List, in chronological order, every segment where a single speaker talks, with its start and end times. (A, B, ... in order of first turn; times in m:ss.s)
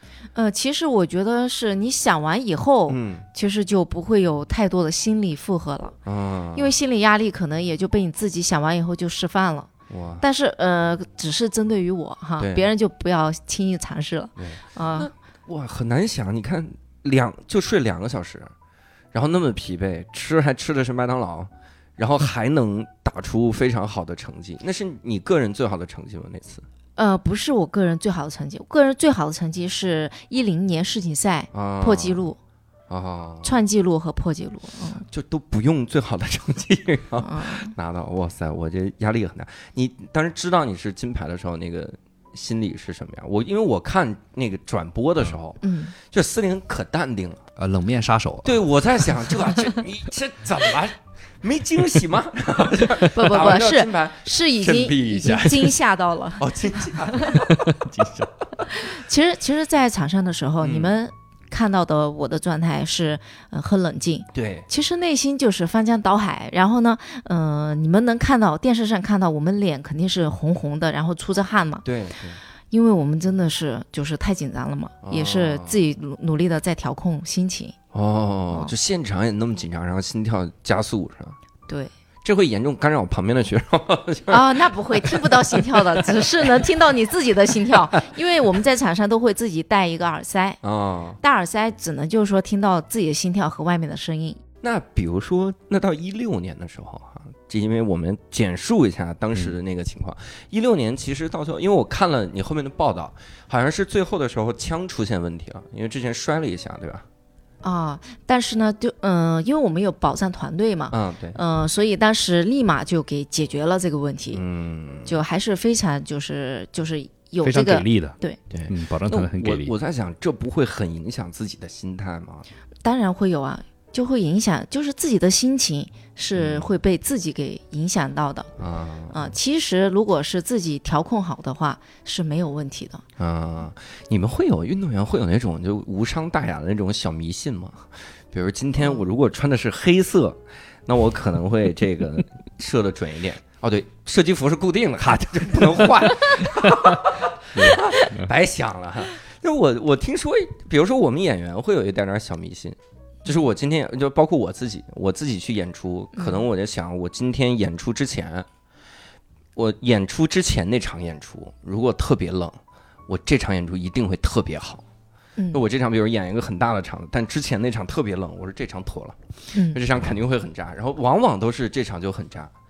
0:00.3-0:06.0 A
0:02.9-0:03.2 B
0:06.0-0:06.7 B
0:06.6-0:09.7 A
0:09.9-0:10.2 B
0:10.2-0:15.1 A
0:12.4-0:12.7 B
0:14.4-0:18.5 B
0:19.1-0:26.6 B
0:27.0-0:32.4 A
0:31.5-0:32.3 B
0:32.9-0:33.6 B
0:33.4-0:35.0 A
0:35.0-0:47.4 B
0:37.2-0:37.7 A
0:45.6-0:45.9 A
0:47.6-0:48.6 C
0:48.4-0:55.8 B
0:53.1-0:57.4 A
0:56.4-0:57.6 B
0:57.6-0:58.3 C
0:58.6-1:11.8 A
1:00.6-1:01.0 B
1:04.3-1:04.7 B
1:11.8-1:12.4 B
1:12.7-1:17.7 A
1:15.0-1:15.8 B
1:17.9-1:21.4 B
1:22.2-1:26.6 B
1:24.3-1:30.6 A
1:30.6-1:31.2 B
1:31.2-1:34.4 A
1:34.6-1:47.0 B
1:47.6-1:54.4 A
1:50.9-1:51.4 B
1:54.3-1:55.2 B
1:55.0-1:58.4 A
1:57.4-1:59.7 C
1:58.5-2:02.5 B
2:02.8-2:08.5 A
2:06.4-2:06.7 B
2:08.6-2:09.3 B
2:09.1-2:13.0 A
2:13.2-2:38.4 B
2:18.8-2:19.0 A
2:27.5-2:28.3 C
2:36.2-2:36.4 A
2:39.6-2:44.8 B
2:45.4-2:45.6 A
2:45.5-2:52.5 B
2:49.5-2:49.8 A